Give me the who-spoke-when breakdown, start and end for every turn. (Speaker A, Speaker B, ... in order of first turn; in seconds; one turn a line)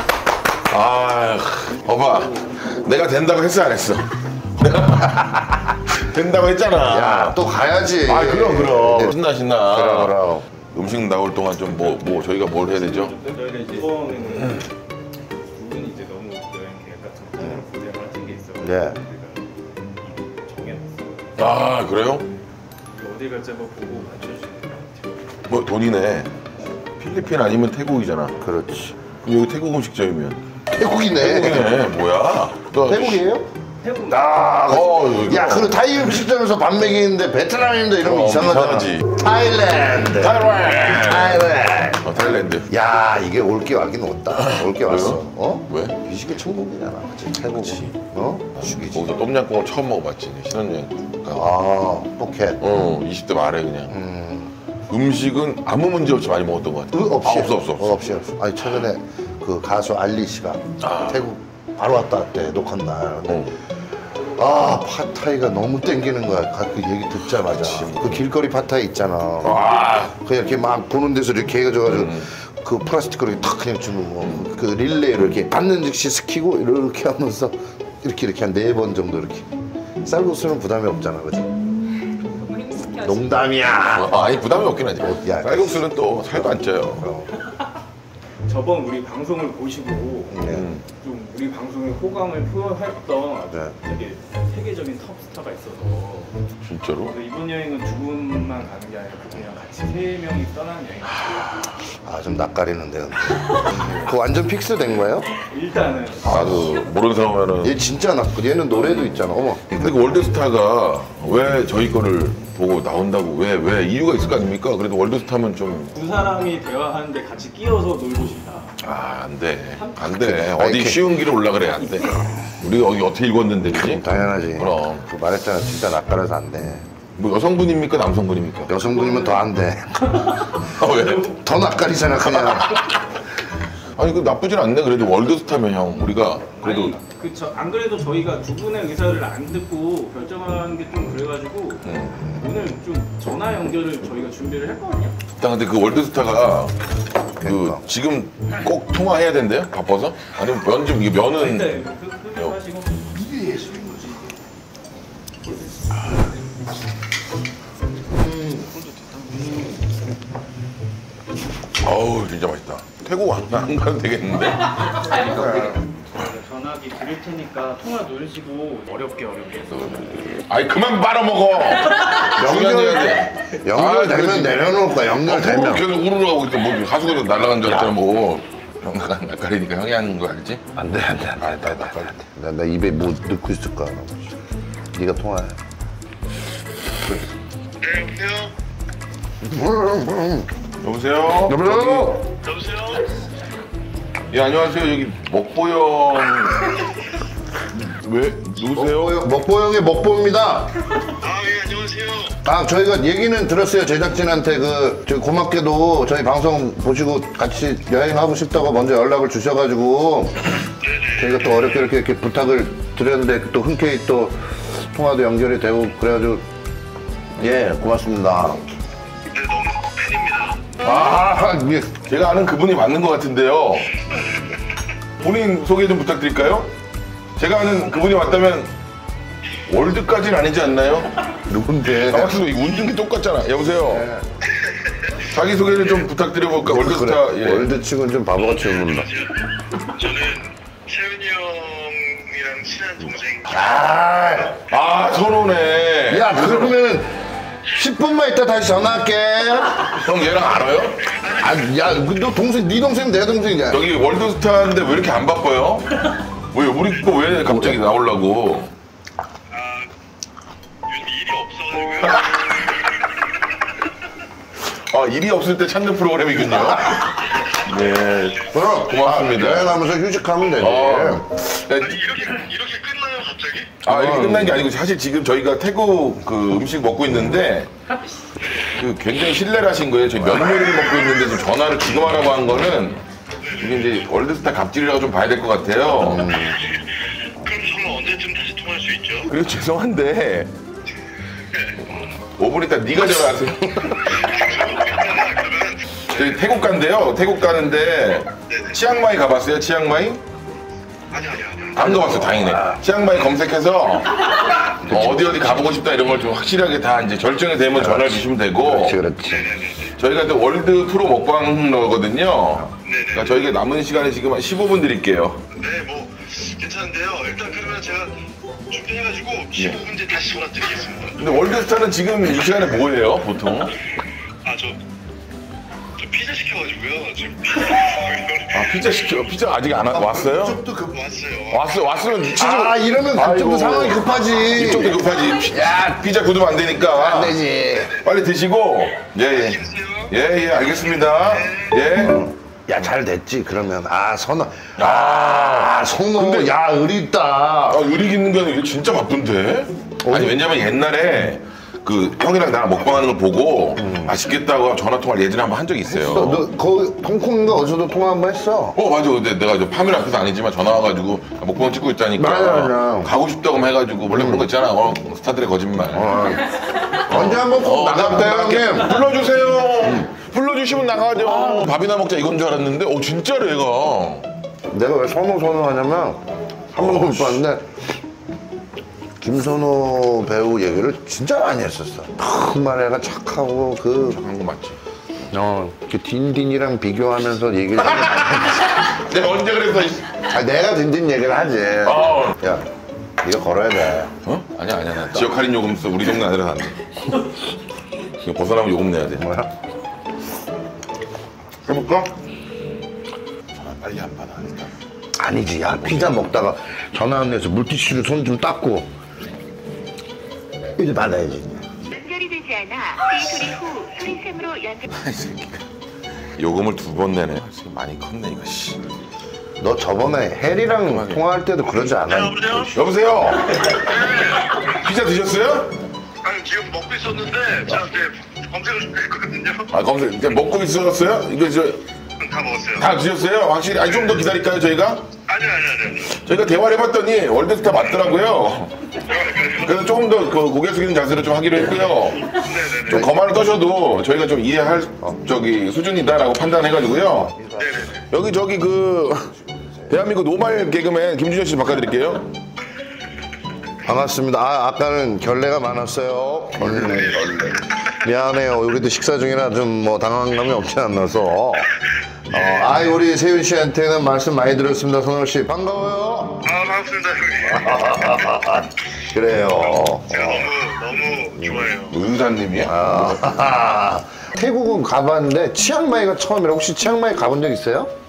Speaker A: 0.7-7.4
Speaker B: 6.9-10.5
Speaker A: 8.0-13.1
Speaker C: 12.3-14.7
Speaker C: 15.5-21.4
Speaker B: 18.6-19.0
Speaker A: 21.4-22.3
Speaker C: 22.9-25.2
Speaker A: 25.5-26.3
Speaker A: 27.0-28.4
Speaker B: 28.4-29.0
Speaker A: 29.2-30.4
Speaker B: 30.7-31.9
Speaker A: 31.1-33.2
Speaker B: 32.8-33.5
Speaker C: 33.8-34.8
Speaker B: 34.1-49.1
Speaker A: 34.6-35.8
Speaker A: 38.0-39.1
Speaker A: 40.2-42.7
Speaker A: 44.4-46.0
Speaker A: 47.5-48.0
Speaker A: 48.8-51.5
Speaker B: 51.3-52.6
Speaker A: 52.6-54.0
Speaker B: 53.9-54.5
Speaker A: 54.9-58.0
Speaker B: 56.9-63.5
Speaker A: 60.8-61.2
Speaker A: 63.3-63.5
Speaker B: 64.2-79.5
Speaker A: 67.1-68.3
Speaker A: 69.4-70.1
Speaker A: 71.9-72.2
Speaker B: 80.0-81.6
Speaker C: 82.6-82.9
Speaker B: 82.8-87.3
Speaker A: 83.8-87.1
Speaker C: 88.5-96.4
Speaker B: 90.3-90.7
Speaker A: 90.5-90.8
Speaker A: 96.7-97.2
Speaker C: 97.1-101.7
Speaker B: 101.9-105.3
Speaker C: 105.4-106.4
Speaker B: 106.2-106.8
Speaker A: 106.2-107.8
Speaker B: 107.6-110.1
Speaker A: 109.7-116.0
Speaker C: 115.9-118.7
Speaker A: 118.8-125.1
Speaker C: 119.7-120.0
Speaker B: 120.0-121.0
Speaker B: 123.7-126.9
Speaker A: 127.2-128.8
Speaker B: 128.7-130.3
Speaker C: 129.1-129.4
Speaker A: 130.5-131.3
Speaker B: 131.2-132.9
Speaker A: 133.7-137.0
Speaker C: 136.5-145.2
Speaker A: 141.8-142.2
Speaker B: 142.2-142.4
Speaker A: 145.4-146.8
Speaker A: 147.4-151.8
Speaker B: 147.4-147.8
Speaker C: 151.3-154.2
Speaker B: 153.2-154.1
Speaker B: 158.2-158.6
Speaker C: 158.7-159.7
Speaker A: 161.8-165.4
Speaker C: 165.0-170.1
Speaker B: 165.2-165.7
Speaker A: 169.8-180.6
Speaker B: 172.2-175.9
Speaker B: 180.7-184.3
Speaker A: 181.4-182.1
Speaker B: 184.9-185.6
Speaker D: 187.8-188.5
Speaker B: 189.4-190.5
Speaker A: 190.8-192.2
Speaker B: 191.4-192.2
Speaker D: 192.4-193.0
Speaker A: 194.3-196.8
Speaker A: 197.7-199.2
Speaker B: 198.7-200.8
Speaker D: 201.2-202.4
Speaker B: 202.4-210.5
Speaker D: 210.8-211.4
Speaker B: 211.2-216.4
Speaker B: 217.4-218.6
Speaker D: 219.3-220.7
Speaker B: 220.8-222.0
Speaker A: 220.8-221.3
Speaker A: 222.0-224.0
Speaker A: 225.2-226.7
Speaker A: 227.4-228.7
Speaker A: 229.7-231.1
Speaker B: 231.4-232.4
Speaker A: 231.8-234.1
Speaker B: 233.8-234.2
Speaker A: 235.3-237.7
Speaker B: 236.6-239.1
Speaker D: 238.6-243.8
Speaker B: 243.4-244.6
Speaker A: 244.7-246.8
Speaker B: 246.1-247.2
Speaker B: 247.7-249.9
Speaker A: 249.8-251.0
Speaker D: 251.0-251.7
Speaker B: 251.4-253.9
Speaker A: 253.7-258.7
Speaker B: 257.4-257.7
Speaker D: 259.5-259.9
Speaker D: 260.9-263.2
Speaker A: 262.0-262.6
Speaker A: 264.6-269.8
Speaker B: 266.6-266.9
Speaker B: 268.5-271.2
Speaker A: 270.6-272.0
Speaker D: 271.8-273.8
Speaker A: 273.8-277.7
Speaker B: 273.9-274.6
Speaker D: 278.4-278.7
Speaker A: 278.7-283.0
Speaker D: 280.6-281.1
Speaker D: 283.4-283.8
Speaker A: 283.6-286.3
Speaker B: 286.0-286.6
Speaker D: 287.4-289.3
Speaker A: 289.2-290.5
Speaker D: 291.5-291.8
Speaker A: 292.4-294.2
Speaker D: 294.1-296.4
Speaker A: 296.0-300.2
Speaker D: 298.5-298.8
Speaker D: 301.1-301.9
Speaker A: 301.7-309.0
Speaker B: 301.8-302.8
Speaker B: 304.9-305.7
Speaker B: 307.7-309.5
Speaker D: 309.2-309.9
Speaker A: 309.9-315.4
Speaker D: 312.8-313.5
Speaker D: 315.5-321.6
Speaker A: 319.5-319.8
Speaker A: 321.2-323.8
Speaker D: 324.4-324.8
Speaker D: 326.0-328.9
Speaker A: 328.5-330.6
Speaker B: 329.9-331.0
Speaker D: 330.8-332.4
Speaker A: 331.5-337.4
Speaker B: 332.4-336.0
Speaker B: 336.8-337.9
Speaker D: 337.7-338.1
Speaker A: 338.0-342.2
Speaker D: 339.3-340.1
Speaker D: 341.1-341.9
Speaker B: 342.0-347.8
Speaker A: 344.8-346.5
Speaker A: 347.7-356.4
Speaker B: 350.0-350.4
Speaker B: 353.8-354.2
Speaker B: 355.9-358.8
Speaker A: 358.7-366.2
Speaker B: 362.1-363.1
Speaker B: 364.1-364.5
Speaker B: 365.9-369.0
Speaker A: 367.1-374.3
Speaker B: 369.8-370.1
Speaker B: 371.2-371.8
Speaker B: 374.7-376.2
Speaker B: 376.7-377.8
Speaker A: 376.7-377.4
Speaker B: 379.2-384.2
Speaker A: 384.0-384.8
Speaker B: 385.3-388.8
Speaker A: 387.8-390.3
Speaker B: 390.3-392.6
Speaker A: 391.8-392.4
Speaker B: 393.2-394.1
Speaker A: 394.2-396.8
Speaker A: 398.0-399.2
Speaker B: 399.1-399.5
Speaker A: 401.7-402.1
Speaker A: 403.6-404.7
Speaker B: 405.2-408.9
Speaker A: 405.8-406.2
Speaker B: 410.7-411.7
Speaker E: 411.9-414.8
Speaker A: 413.1-413.4
Speaker A: 414.9-415.7
Speaker A: 416.2-418.9
Speaker B: 419.6-422.7
Speaker A: 420.8-421.2
Speaker D: 422.0-422.8
Speaker A: 422.7-425.7
Speaker D: 423.6-424.7
Speaker D: 426.2-429.7
Speaker A: 429.7-431.8
Speaker D: 432.2-432.9
Speaker A: 432.8-435.1
Speaker D: 433.9-434.1
Speaker D: 435.3-436.1
Speaker A: 436.1-438.9
Speaker D: 439.0-439.8
Speaker A: 439.5-447.4
Speaker D: 442.3-443.1
Speaker B: 442.9-443.2
Speaker B: 447.3-447.6
Speaker D: 447.5-448.0
Speaker A: 448.1-452.3
Speaker B: 449.5-450.0
Speaker B: 453.8-457.3
Speaker A: 456.6-457.6
Speaker B: 457.9-461.7
Speaker B: 462.3-466.5
Speaker D: 462.3-462.7
Speaker D: 466.4-468.1
Speaker B: 467.5-470.6
Speaker D: 470.1-472.0
Speaker B: 471.4-471.7
Speaker A: 471.9-473.3
Speaker B: 472.6-477.9